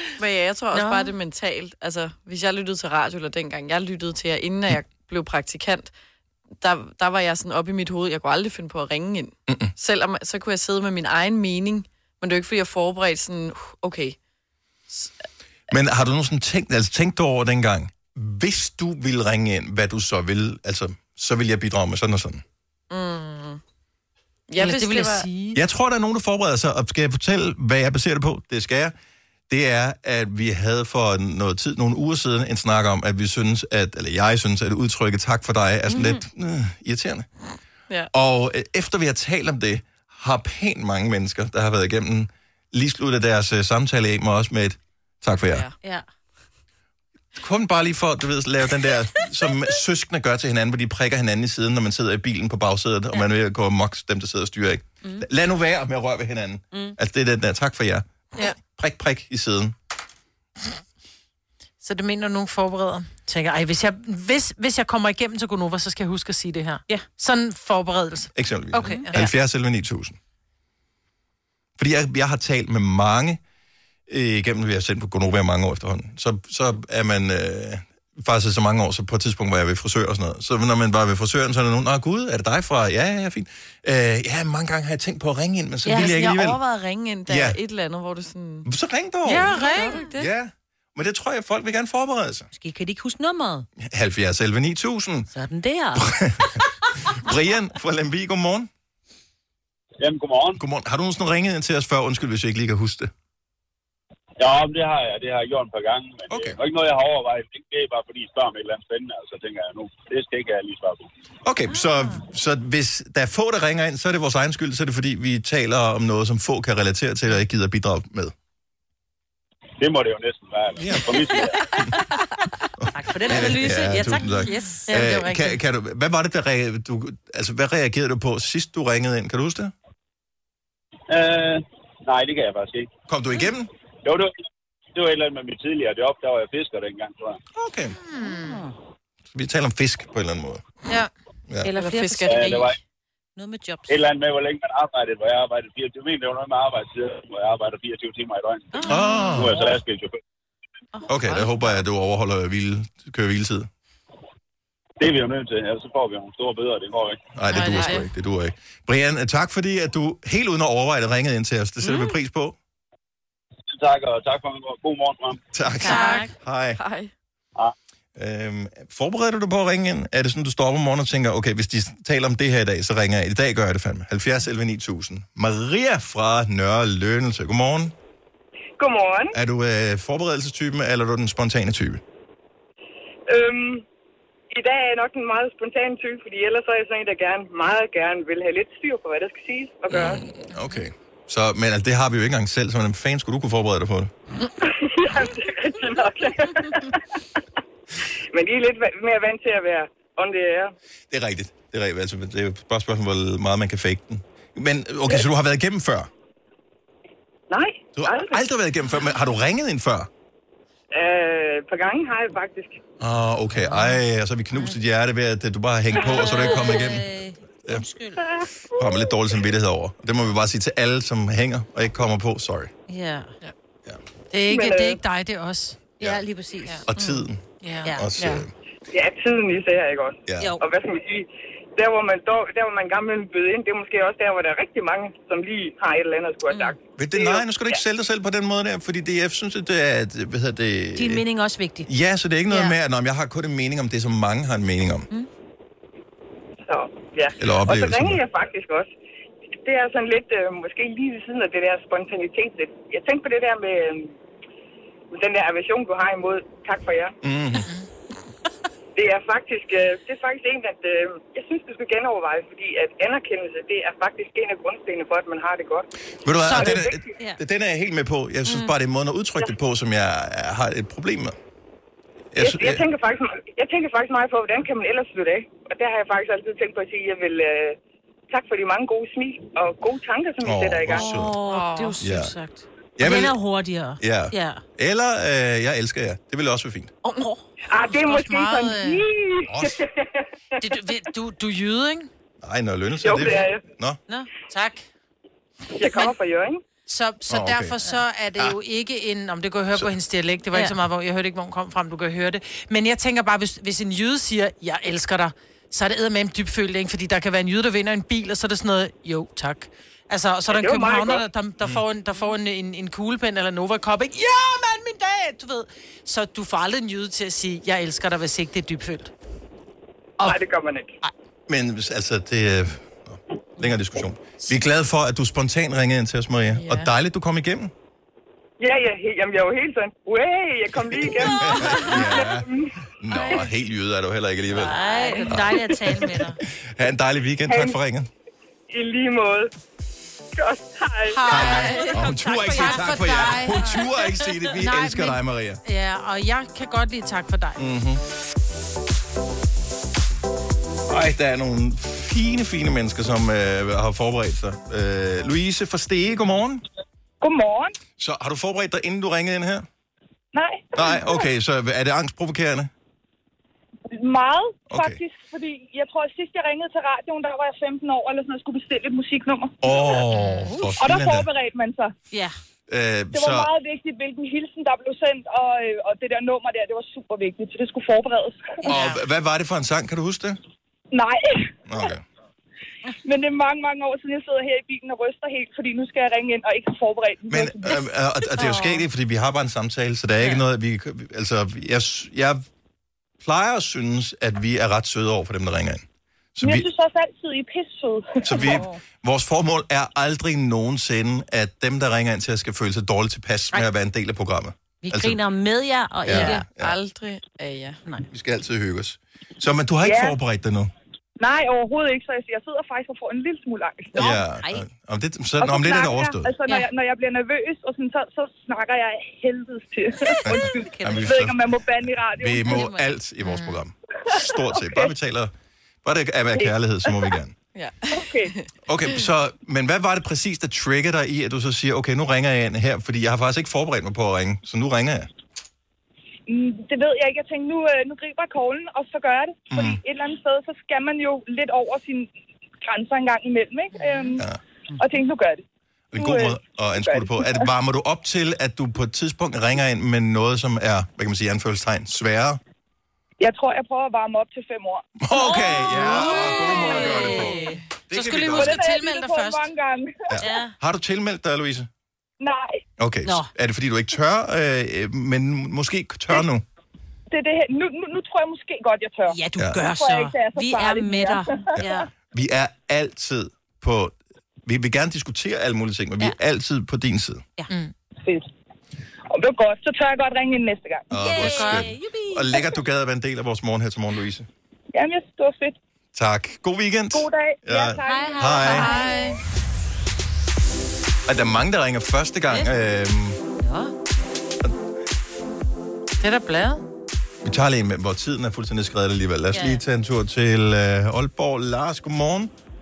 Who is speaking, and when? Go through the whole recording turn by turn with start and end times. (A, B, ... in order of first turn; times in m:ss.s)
0:00.2-0:05.9 A
0:00.8-0:01.0 B
0:06.6-0:14.2 A
0:09.5-0:09.7 C
0:15.7-0:22.4 C
0:22.9-0:23.6 A
0:24.5-0:25.3 A
0:24.6-0:25.6 B
0:25.5-0:28.9 C
0:29.5-0:37.3 C
0:35.9-0:36.2 D
0:38.1-0:45.6 C
0:45.5-0:45.7 A
0:47.4-0:58.1 C
0:58.6-0:59.7 C
1:01.8-1:09.2 B
1:08.3-1:10.2 C
1:11.8-1:13.4 C
1:14.1-1:26.6 C
1:25.8-1:26.3 D
1:25.9-1:28.7 A
1:27.3-1:27.6 C
1:28.6-1:29.5 C
1:29.2-1:30.0 B
1:29.5-1:30.3 A
1:30.2-1:32.5 C
1:32.5-1:33.7 D
1:33.8-1:35.3 C
1:35.3-1:36.9 D
1:35.9-1:38.7 C
1:40.0-1:40.6 E
1:40.6-1:43.1 C
1:44.4-1:51.1 E
1:46.3-1:46.6 C
1:51.4-1:58.3 C
1:59.8-2:01.8 E
2:00.8-2:01.9 C
2:02.8-2:09.7 C
2:02.9-2:05.0 D
2:04.9-2:05.6 B
2:11.1-2:12.9 E
2:13.1-2:13.7 C
2:14.0-2:14.3 E
2:14.9-2:17.4 E
2:17.5-2:18.0 C
2:18.1-2:18.6 B
2:18.3-2:18.7 D
2:19.3-2:20.6 C
2:21.6-2:22.7 D
2:21.7-2:22.7 A
2:22.2-2:22.8 E
2:23.4-2:24.0 D
2:23.9-2:28.8 E
2:28.7-2:29.5 D
2:28.8-2:29.6 C
2:29.4-2:30.2 E
2:31.1-2:33.7 C
2:35.0-2:37.2 E
2:37.3-2:42.6 C
2:37.5-2:38.0 A
2:37.5-2:38.0 B
2:43.7-2:45.4 E
2:45.5-2:46.8 C
2:45.8-2:46.3 D
2:45.8-2:46.3 B
2:46.8-2:47.1 A
2:48.2-2:57.9 C
2:58.8-2:59.4 F
2:59.3-3:02.0 C
3:03.3-3:03.8 F
3:04.5-3:10.2 F
3:09.9-3:14.1 C
3:14.6-3:17.0 F
3:18.3-3:20.7 F
3:21.1-3:26.1 C
3:27.5-3:28.4 F
3:28.0-3:30.1 C
3:30.9-3:32.8 F
3:33.0-3:37.1 C
3:33.7-3:34.0 D
3:35.9-3:38.2 D
3:38.7-3:42.7 C
3:42.9-3:43.3 D
3:44.3-3:45.8 B
3:44.5-3:45.0 F
3:46.0-3:46.9 D
3:46.9-3:48.5 C
3:46.9-3:47.2 A
3:47.6-3:48.4 B
3:48.9-3:57.8 F
3:50.3-3:50.6 C
3:57.0-4:01.2 C
4:01.0-4:01.9 D
4:01.8-4:05.1 C
4:06.6-4:08.9 F
4:07.4-4:08.2 C
4:09.6-4:14.2 F
4:15.1-4:17.2 F
4:17.2-4:17.7 C
4:18.9-4:25.9 F
4:26.2-4:31.4 C
4:26.4-4:26.8 B
4:26.5-4:27.0 F
4:32.3-4:32.9 C
4:32.4-4:37.8 F
4:38.3-4:41.1 F
4:40.4-4:41.4 C
4:40.9-4:44.6 D
4:41.4-4:42.0 A
4:42.0-4:42.3 C
4:43.0-4:43.4 C
4:44.0-4:46.9 C
4:47.1-4:47.4 D
4:47.7-4:50.1 F
4:47.9-4:49.0 B
4:49.5-4:49.8 C
4:50.6-4:52.1 B
4:52.4-4:54.0 C
4:53.0-4:53.6 F
4:54.1-4:54.9 B
4:55.7-4:56.6 F
4:55.9-4:56.1 B
4:56.9-5:19.1 B
4:57.3-4:57.8 C
5:10.5-5:11.2 F
5:20.2-5:20.9 F
5:21.5-5:27.7 C
5:28.6-5:32.8 F
5:30.9-5:36.0 C
5:34.5-5:36.4 D
5:34.8-5:35.3 B
5:35.7-5:36.0 F
5:36.6-5:38.1 C
5:37.5-5:37.8 F
5:38.7-5:39.5 F
5:40.3-5:41.5 F
5:41.1-5:43.8 B
5:41.3-5:45.6 C
5:41.4-5:43.8 D
5:44.5-5:47.6 B
5:47.6-5:48.0 C
5:50.9-5:56.6 C
5:57.2-5:57.8 G
5:58.0-5:59.7 C
6:00.3-6:01.2 G
6:00.7-6:02.7 C
6:03.9-6:10.0 G
6:04.7-6:05.0 C
6:09.6-6:11.3 C
6:10.2-6:10.5 B
6:10.8-6:11.9 G
6:12.1-6:12.4 D
6:12.7-6:13.5 C
6:13.1-6:18.7 G
6:18.6-6:19.0 B
6:18.6-6:20.4 C
6:20.9-6:21.9 G
6:21.6-6:22.0 C
6:23.0-6:27.8 G
6:27.3-6:32.4 C
6:33.2-6:35.8 C
6:36.4-6:36.7 C
6:36.4-6:38.7 G
6:38.2-6:45.2 C
6:44.8-6:46.4 D
6:46.0-6:46.8 C
6:46.1-6:47.8 A
6:48.1-6:50.7 C
6:49.8-6:50.2 G
6:51.2-6:54.1 G
6:53.9-6:54.6 D
6:53.9-6:56.3 C
6:55.4-7:02.7 G
7:00.1-7:01.2 D
7:00.2-7:05.3 C
7:02.5-7:02.9 D
7:03.2-7:03.6 B
7:04.1-7:04.9 G
7:05.8-7:07.3 C
7:06.4-7:07.2 G
7:07.5-7:08.5 A
7:07.9-7:08.3 G
7:08.6-7:15.1 C
7:16.3-7:22.1 G
7:19.5-7:19.8 C
7:22.6-7:24.2 G
7:23.8-7:24.1 B
7:24.8-7:25.4 G
7:25.9-7:32.4 C
7:26.0-7:27.5 G
7:33.2-7:34.9 G
7:35.0-7:38.7 C
7:35.1-7:37.6 D
7:35.8-7:39.5 B
7:38.3-7:40.2 G
7:40.1-7:41.7 C
7:40.2-7:40.5 D
7:42.2-7:42.6 G
7:42.8-7:46.4 C
7:43.0-7:43.3 D
7:47.1-7:51.6 G
7:49.1-7:51.9 D
7:49.4-7:49.6 C
7:51.5-7:57.2 C
7:58.0-7:58.3 G
7:59.1-8:00.9 G
8:00.9-8:04.3 C
8:01.0-8:02.4 D
8:01.2-8:01.7 B
8:04.7-8:05.6 G
8:05.9-8:08.8 C
8:06.9-8:08.8 G
8:07.8-8:09.1 D
8:08.6-8:09.1 B
8:08.6-8:09.1 A
8:11.0-8:13.2 C
8:13.4-8:13.7 D
8:16.0-8:16.6 B
8:17.2-8:22.3 C
8:19.3-8:19.6 D